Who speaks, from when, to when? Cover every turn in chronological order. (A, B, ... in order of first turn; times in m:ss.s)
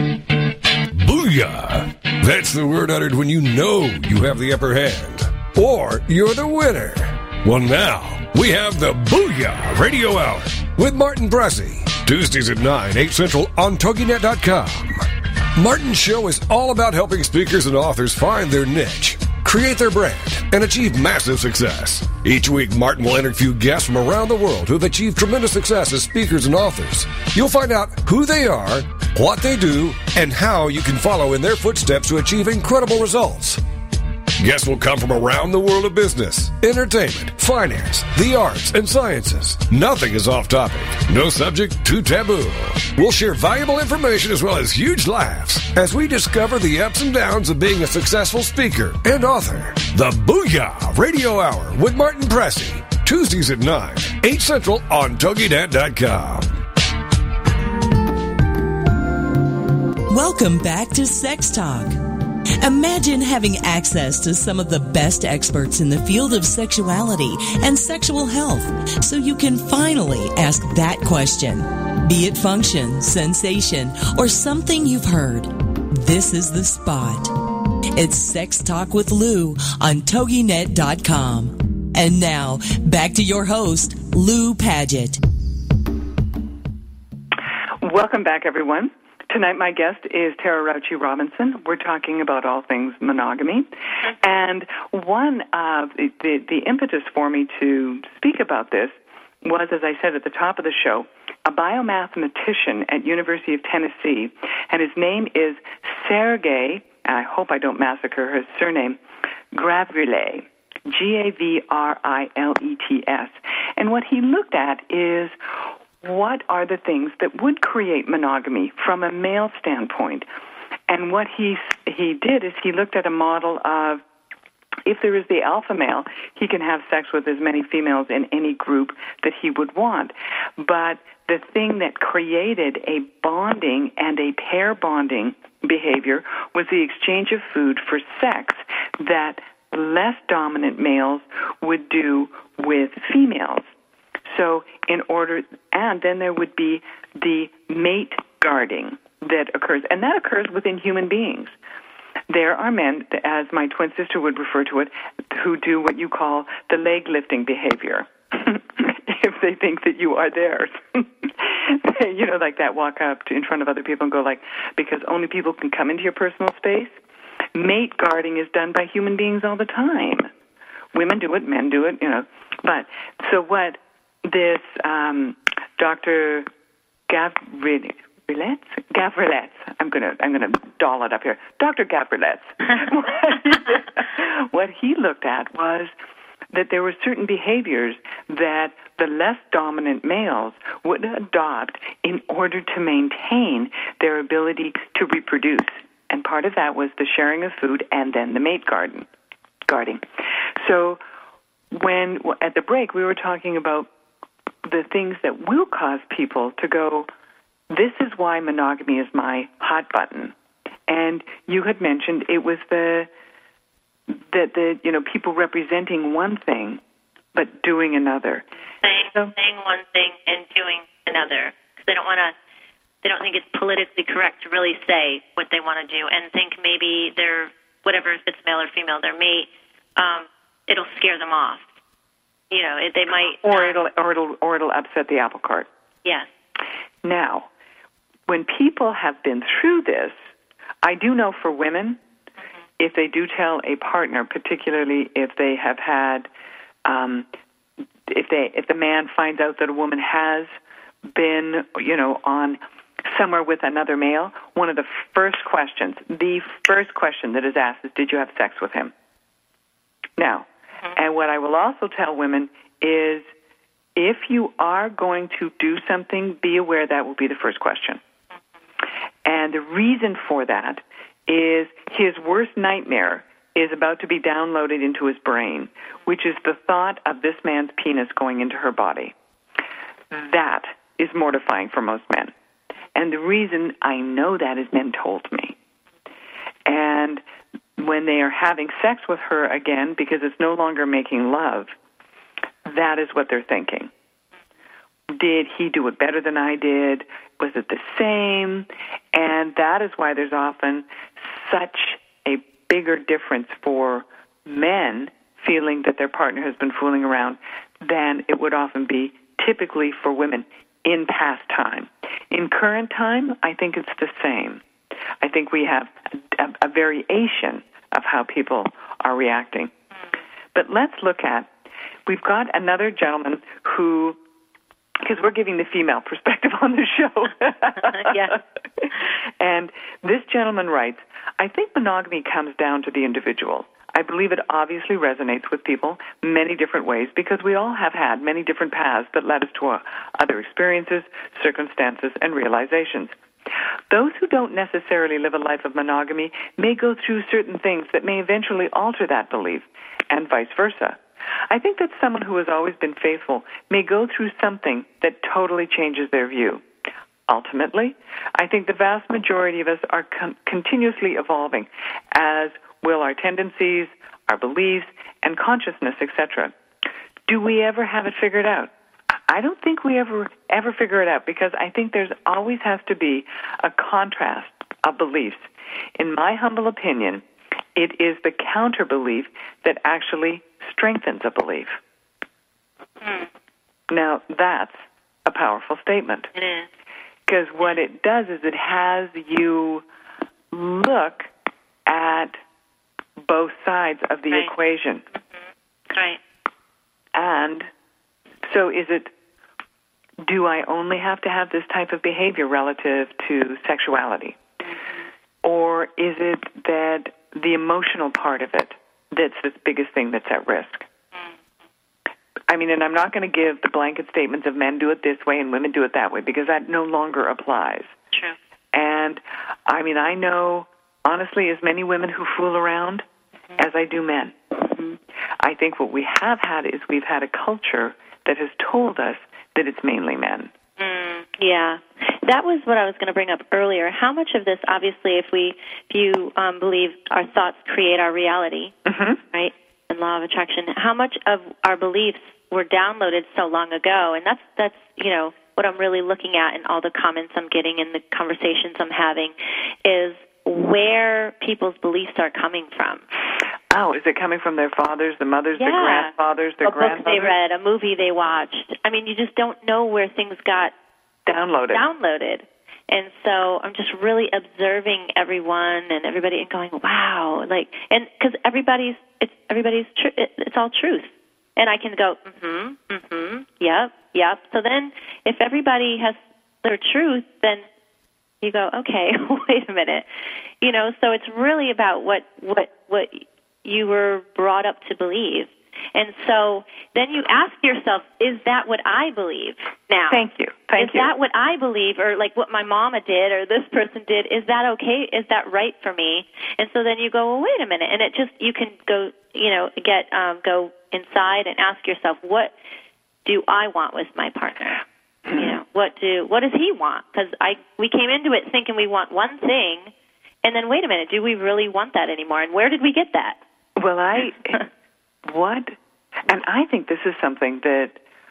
0:00.9-0:33.6 A
0:34.4-0:56.6 A
1:00.1-1:02.0 B
1:02.6-1:17.4 B
1:18.0-1:25.2 B
1:27.8-1:49.0 C
1:49.5-1:55.4 C
1:56.0-2:00.2 C
2:00.9-2:04.0 C
2:04.9-2:23.6 C
2:24.3-2:31.5 C
2:32.3-2:46.9 C
2:47.6-2:50.3 C
2:50.9-2:56.5 C
2:57.1-3:05.9 C
3:06.5-3:19.1 C
3:19.7-3:20.0 C
3:20.6-3:21.0 C
3:21.7-3:23.9 C
3:24.6-3:27.1 C
3:27.7-3:30.3 C
3:30.9-3:33.1 C
3:34.1-3:36.8 C
3:37.3-3:38.4 C
3:38.8-3:42.3 D
3:39.1-3:39.3 C
3:43.0-3:51.6 D
3:52.5-3:53.8 D
3:53.4-3:55.7 C
3:57.0-3:57.5 C
3:58.3-4:00.1 C
4:00.8-4:02.0 C
4:02.8-4:06.3 C
4:06.8-4:07.3 C
4:08.1-4:10.5 C
4:11.1-4:18.9 C
4:20.2-4:23.2 C
4:24.0-4:28.0 C
4:29.2-4:39.1 C
4:40.1-4:42.3 C
4:42.9-4:45.6 C
4:46.6-4:47.2 C
4:47.8-4:51.7 C
4:52.6-4:53.9 C
4:55.1-5:14.6 C
5:15.2-5:19.7 C
5:20.5-5:21.5 C
5:22.1-5:24.2 C
5:25.0-5:43.1 C
5:28.0-5:28.3 D
5:43.9-5:51.0 C
5:51.5-5:56.6 C
5:57.3-6:06.5 C
6:07.3-6:08.7 C
6:09.3-6:17.2 C
6:17.8-6:21.8 C
6:23.0-6:23.3 D
6:23.9-6:26.3 C
6:26.4-6:26.7 D
6:27.3-6:29.8 C
6:30.5-6:31.3 C
6:31.8-6:32.4 C
6:33.2-6:35.0 C
6:35.9-6:36.2 D
6:37.1-6:37.7 C
6:38.4-6:39.1 C
6:40.2-6:44.4 C
6:45.4-6:50.8 C
6:52.5-6:57.9 C
6:58.7-7:03.0 C
7:03.6-7:04.4 C
7:05.4-7:10.5 C
7:10.8-7:18.7 D
7:18.9-7:19.2 C
7:19.3-7:29.3 D
7:29.8-7:33.0 D
7:33.7-7:37.3 C
7:35.6-7:36.1 D
7:36.6-7:40.7 D
7:41.3-7:41.8 C
7:41.7-7:57.6 D
7:58.4-8:00.1 D
8:00.6-8:10.2 D
8:10.1-8:11.1 C
8:10.8-8:22.5 D
8:23.2-8:24.8 D
8:25.3-8:25.5 C
8:25.4-8:29.9 D
8:30.4-8:33.4 D
8:33.8-8:34.7 C
8:35.3-8:35.8 C
8:36.3-8:38.0 C